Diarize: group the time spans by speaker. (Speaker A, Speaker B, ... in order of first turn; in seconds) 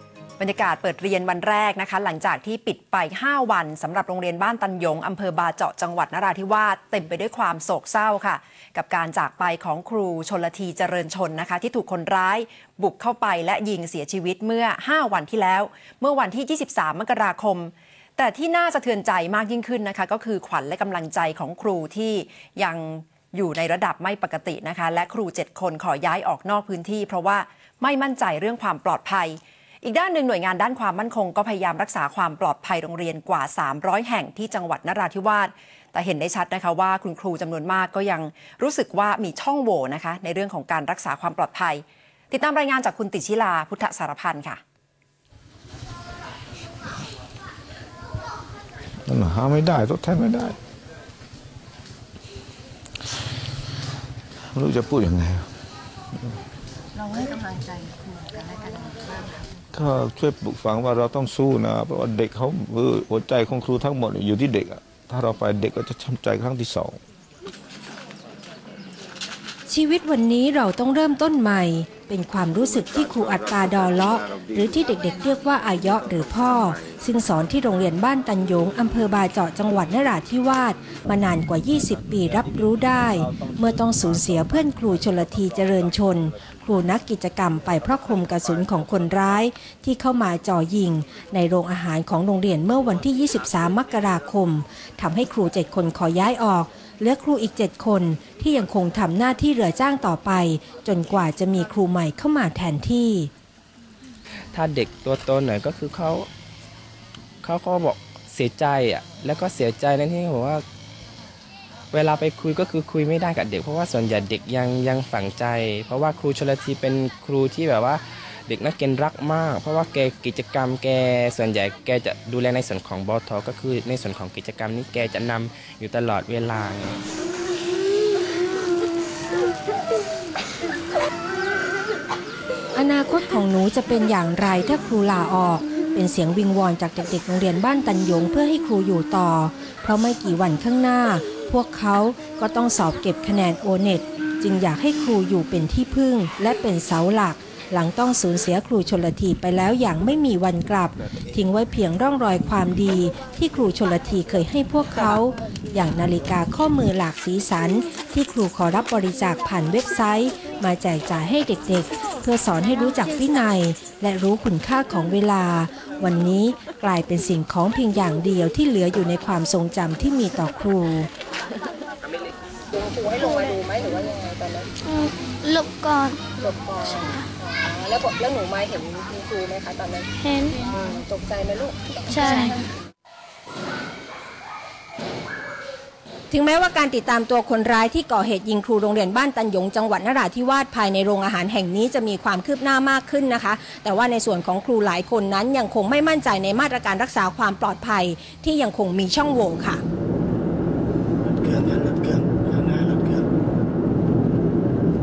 Speaker A: 0.4-44.6
Speaker B: 49.1-50.6, 54.5-55.5, 59.7-67.0
Speaker C: 57.0-59.6, 172.7-174.7, 176.4-180.0, 180.8-181.7
Speaker D: 69.7-103.3, 132.7-171.1, 186.3-199.8
Speaker E: 104.5-106.3, 107.4-110.6, 111.9-127.0
Speaker F: 174.8-176.2, 180.2-180.6, 182.1-182.5
Speaker G: 201.2-203.3